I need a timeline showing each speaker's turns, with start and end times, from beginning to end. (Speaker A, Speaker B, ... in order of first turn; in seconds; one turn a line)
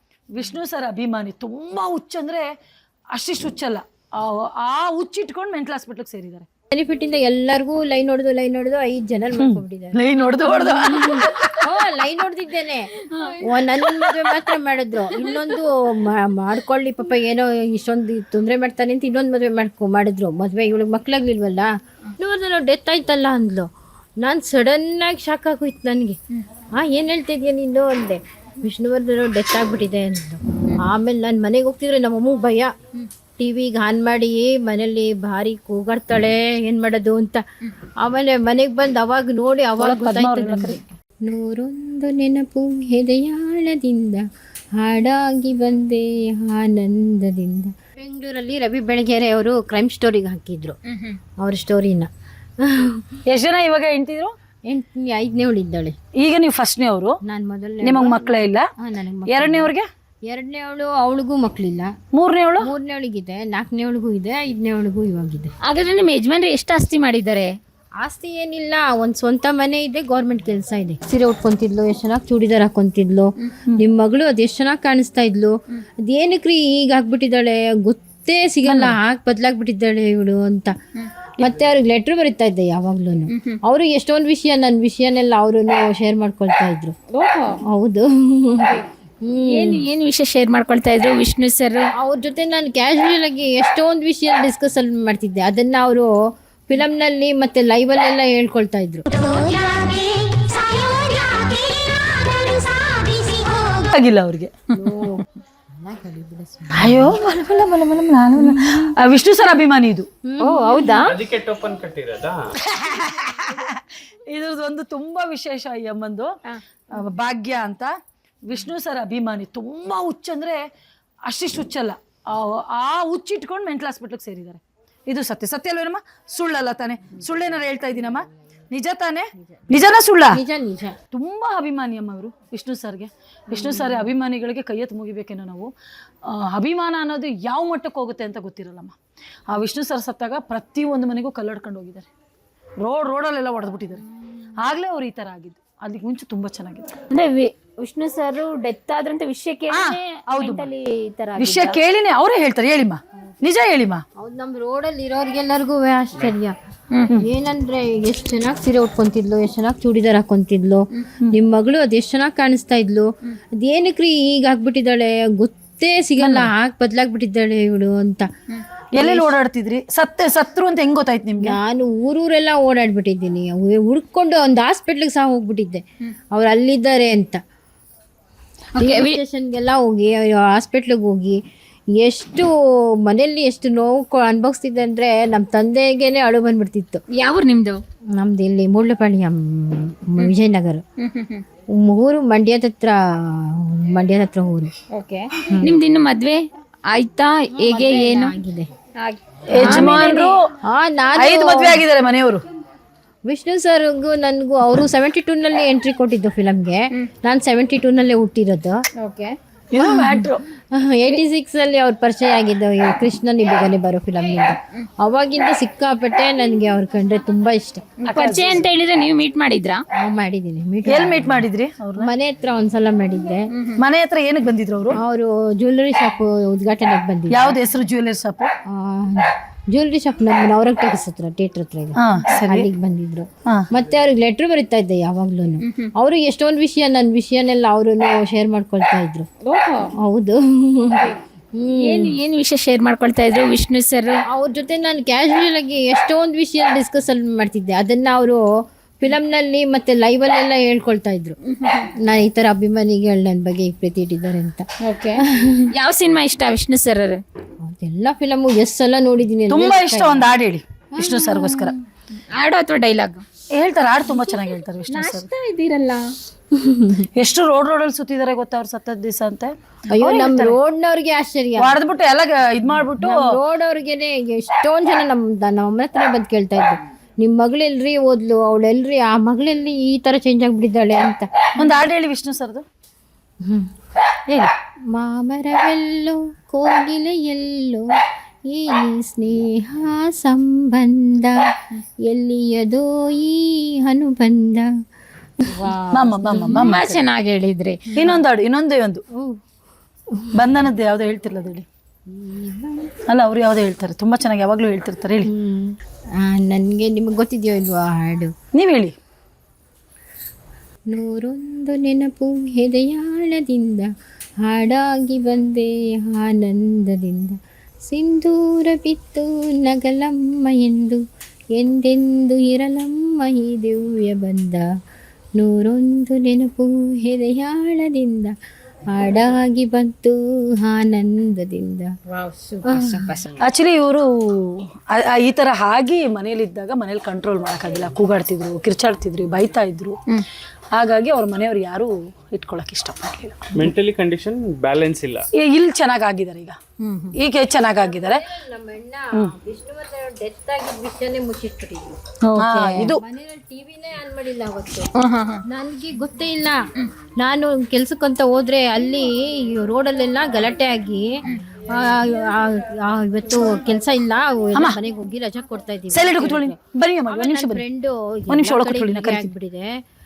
Speaker A: 0.3-2.5
Speaker A: 3.1-6.5
Speaker B: 6.7-23.7
Speaker A: 9.4-11.7
Speaker C: 13.0-13.7
Speaker A: 14.1-14.4
Speaker C: 15.1-15.5
Speaker B: 24.2-26.2
Speaker B: 26.8-32.7
Speaker B: 33.4-37.4
Speaker B: 38.0-44.2
Speaker A: 39.8-40.8
Speaker B: 44.8-50.8
Speaker C: 50.9-51.2
Speaker B: 51.4-52.1
Speaker B: 52.6-53.0
Speaker A: 53.3-54.3
Speaker B: 54.7-56.0
Speaker A: 56.2-57.2
Speaker B: 57.2-59.7
Speaker A: 57.8-58.7
Speaker A: 59.3-59.9
Speaker B: 60.3-61.9
Speaker A: 62.1-62.7
Speaker B: 62.6-65.5
Speaker C: 65.7-67.5
Speaker B: 68.0-80.7
Speaker A: 78.6-79.0
Speaker B: 81.4-87.0
Speaker C: 87.1-87.6
Speaker B: 87.7-89.9
Speaker C: 89.5-91.9
Speaker B: 92.0-96.1
Speaker B: 96.7-99.1
Speaker C: 99.2-103.6
Speaker A: 103.6-104.5
Speaker B: 104.8-107.2
Speaker A: 106.8-110.1
Speaker B: 108.4-109.0
Speaker B: 110.2-110.9
Speaker C: 110.4-111.2
Speaker D: 111.0-112.4
Speaker A: 112.6-116.3
Speaker A: 116.9-117.9
Speaker A: 118.5-120.6
Speaker A: 121.3-130.4
Speaker B: 130.3-130.9
Speaker A: 131.1-135.7
Speaker B: 133.5-134.0
Speaker A: 136.2-138.9
Speaker A: 139.5-142.1
Speaker A: 142.8-144.0
Speaker A: 144.6-147.0
Speaker C: 147.1-151.8
Speaker A: 149.7-150.7
Speaker A: 151.4-154.0
Speaker B: 154.2-156.5
Speaker B: 157.2-163.1
Speaker B: 163.6-168.3
Speaker A: 166.2-166.5
Speaker A: 168.9-171.6
Speaker B: 169.0-169.3
Speaker B: 171.4-177.4
Speaker C: 178.7-179.2
Speaker B: 178.8-181.4
Speaker B: 181.9-182.5
Speaker B: 183.0-187.0
Speaker C: 187.2-187.8
Speaker B: 188.1-190.8
Speaker C: 191.0-191.4
Speaker B: 191.7-194.7
Speaker C: 194.9-196.4
Speaker B: 195.5-195.7
Speaker C: 196.9-198.3
Speaker B: 197.6-198.7
Speaker C: 199.0-200.3
Speaker A: 199.5-200.4
Speaker B: 199.6-199.9
Speaker B: 200.6-201.8
Speaker A: 201.2-202.4
Speaker B: 203.2-208.8
Speaker C: 209.0-209.3
Speaker A: 209.7-210.4
Speaker B: 209.8-217.8
Speaker A: 218.1-218.6
Speaker C: 218.1-219.8
Speaker B: 220.0-221.4
Speaker A: 220.9-222.1
Speaker B: 222.0-223.4
Speaker C: 223.5-223.8
Speaker A: 223.8-225.0
Speaker B: 225.0-227.6
Speaker A: 227.3-228.5
Speaker B: 228.7-239.3
Speaker A: 232.0-232.7
Speaker C: 235.6-235.9
Speaker C: 239.4-239.9
Speaker B: 240.0-242.2
Speaker C: 241.8-244.2
Speaker B: 244.3-248.4
Speaker B: 249.0-251.3
Speaker C: 251.5-251.9
Speaker B: 252.0-254.6
Speaker C: 254.8-257.2
Speaker B: 255.2-255.7
Speaker B: 257.6-260.3
Speaker A: 259.5-261.8
Speaker B: 261.0-261.8
Speaker C: 262.3-263.2
Speaker A: 263.5-265.3
Speaker C: 264.9-266.1
Speaker B: 266.5-267.1
Speaker A: 267.1-270.6
Speaker B: 269.9-271.8
Speaker A: 271.6-273.2
Speaker B: 273.0-281.3
Speaker A: 281.6-282.6
Speaker B: 284.9-287.9
Speaker B: 288.5-291.4
Speaker B: 292.1-294.7
Speaker B: 295.4-296.9
Speaker A: 295.9-296.9
Speaker C: 296.4-298.1
Speaker A: 297.9-299.0
Speaker A: 300.3-301.6
Speaker B: 302.1-302.9
Speaker A: 303.1-305.3
Speaker B: 305.3-308.3
Speaker A: 308.5-309.0
Speaker B: 310.9-313.9
Speaker B: 314.4-321.0
Speaker B: 321.6-324.6
Speaker B: 325.4-328.3
Speaker B: 328.9-331.9
Speaker C: 332.1-333.3
Speaker B: 332.6-333.1
Speaker A: 333.4-340.0
Speaker A: 340.8-343.4
Speaker D: 343.6-345.3
Speaker A: 345.4-346.6
Speaker C: 346.8-347.1
Speaker A: 347.1-348.2
Speaker B: 347.8-351.9
Speaker C: 352.3-352.9
Speaker A: 352.4-353.0
Speaker B: 352.8-354.9
Speaker C: 355.0-355.4
Speaker B: 355.5-356.6
Speaker B: 357.2-361.1
Speaker B: 361.8-366.6
Speaker A: 365.9-367.6
Speaker B: 367.1-369.7
Speaker A: 368.3-369.3